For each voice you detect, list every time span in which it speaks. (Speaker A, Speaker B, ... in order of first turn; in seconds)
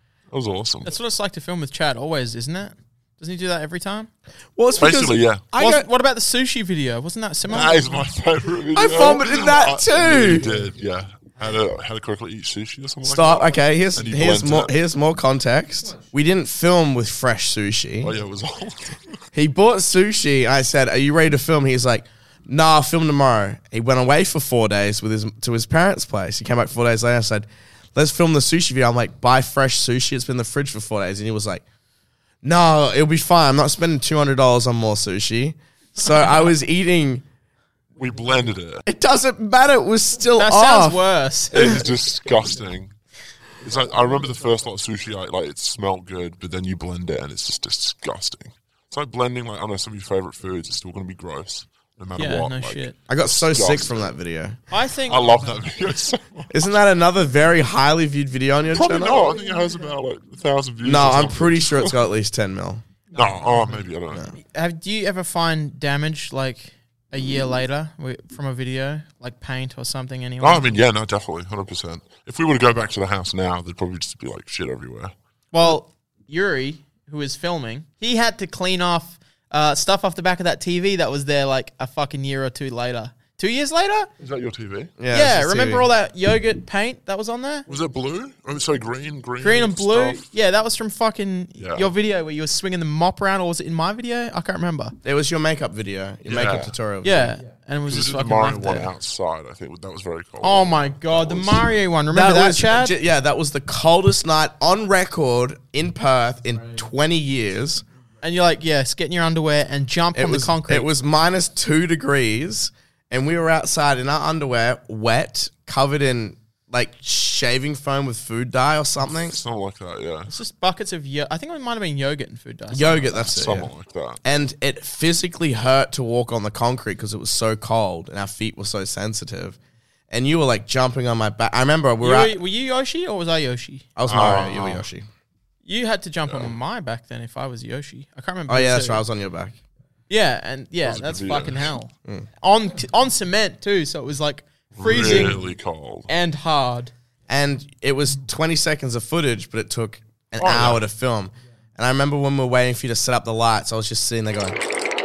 Speaker A: 0.3-0.9, 4.8-5.4, 7.5-14.7, 18.0-19.2, 38.0-38.8, 41.5-42.9, 43.6-54.1, 55.1-56.7, 58.7-61.9, 63.1-64.3, 70.4-75.1, 84.2-84.9, 87.7-90.2, 91.6-91.9, 96.2-96.7, 97.9-101.7, 119.1-120.3, 123.3-124.2, 134.1-134.8, 136.3-136.5, 140.8-141.8, 144.8-146.1, 150.4-150.8
Speaker B: 0.8-4.1, 5.5-7.8, 40.4-42.1, 52.2-53.0, 54.7-55.4, 64.4-70.7, 75.5-84.1, 85.1-87.7, 89.4-95.0, 97.0-98.9, 100.4-102.9, 108.2-110.9, 120.3-123.4, 132.0-133.9, 135.6-139.0, 140.1-145.4, 146.1-146.9
Speaker C: 4.5-5.9, 8.7-10.5, 13.0-18.1, 19.3-31.6, 32.4-37.2, 38.8-41.0, 53.1-54.6, 56.5-59.3, 60.8-62.8, 85.0-85.9, 95.0-97.3, 102.1-107.8, 110.1-119.4, 122.7-123.7, 124.2-129.6, 130.1-132.3, 133.9-135.1, 138.5-139.6, 147.3-154.6